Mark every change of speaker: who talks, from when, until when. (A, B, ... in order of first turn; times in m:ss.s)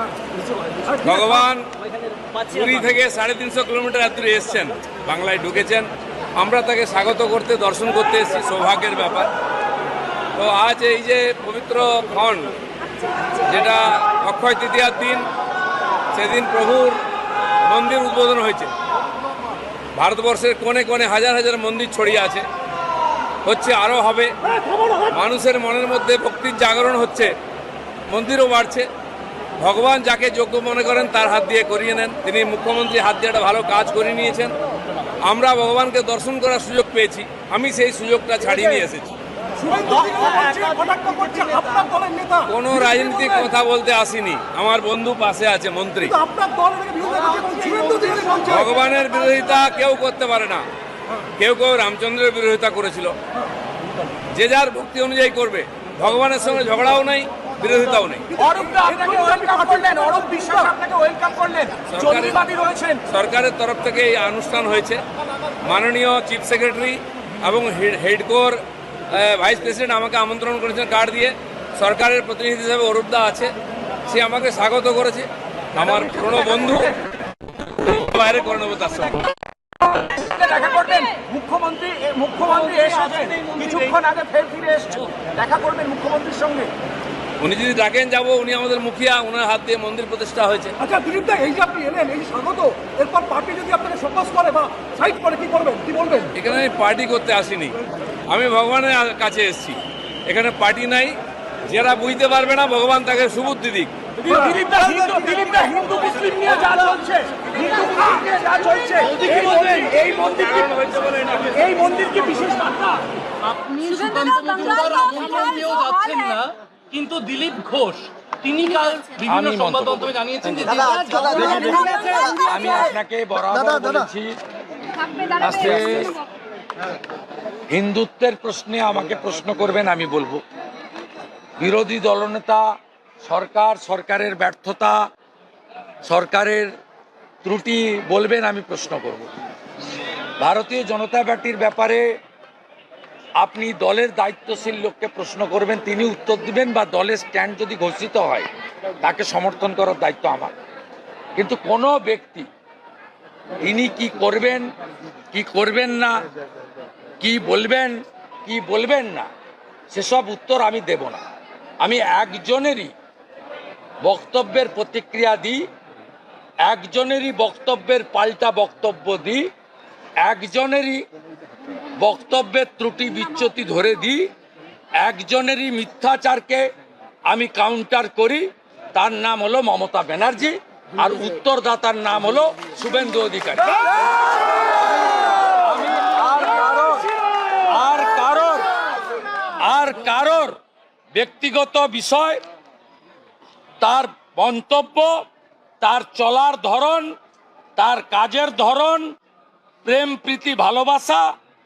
0:00.3-0:01.0 A
0:01.0-0:01.7 B
0:02.4-0:02.7 A
0:02.4-0:09.3 B
0:10.4-0:12.5 B
0:13.3-0:15.2 B
0:16.1-0:17.0 B
0:17.6-0:18.7 B
0:19.9-0:22.4 B
0:23.4-0:24.3 B
0:24.6-0:24.9 C
0:25.0-0:27.3 B
0:28.1-0:28.9 B
0:29.6-0:34.6 B
0:35.2-0:39.2 B
0:39.6-0:43.5 C
0:39.9-0:41.9 A
0:42.5-0:46.2 B
0:46.1-0:48.6 C
0:47.1-0:48.7 A
0:48.5-0:50.6 B
0:51.4-0:53.2 B
0:54.3-0:58.4 B
0:58.4-1:03.0 A
0:58.5-1:00.7 C
1:01.9-1:02.4 B
1:03.1-1:05.0 B
1:05.6-1:08.6 B
1:09.1-1:13.5 B
1:14.1-1:17.0 B
1:17.5-1:19.3 B
1:19.9-1:26.7 A
1:27.4-1:30.8 B
1:30.8-1:36.4 C
1:36.4-1:44.0 B
1:44.3-1:50.7 A
1:44.3-1:46.8 C
1:49.1-1:51.8 B
1:51.7-1:53.0 C
1:51.8-1:52.3 A
1:53.5-2:01.8 D
1:59.2-2:00.1 E
2:01.2-2:02.1 C
2:02.3-2:04.3 E
2:05.2-2:06.2 E
2:07.7-2:10.4 E
2:11.6-2:12.6 E
2:13.2-2:15.0 E
2:16.0-2:16.7 E
2:17.4-2:19.3 E
2:20.4-2:22.0 E
2:23.4-2:28.5 E
2:29.0-2:30.5 E
2:31.4-2:32.5 E
2:33.6-2:34.7 E
2:35.3-2:36.2 E
2:37.2-2:39.3 E
2:39.9-2:41.2 E
2:41.8-2:42.9 E
2:44.0-2:45.7 E
2:46.6-2:49.5 E
2:50.2-2:51.1 E
2:52.0-2:54.3 E
2:55.0-2:56.7 E
2:57.3-3:03.8 E
3:05.3-3:08.7 E
3:09.6-3:10.6 E
3:11.1-3:12.4 E
3:13.8-3:15.2 E
3:15.8-3:17.1 E
3:17.8-3:19.1 E
3:19.8-3:21.3 E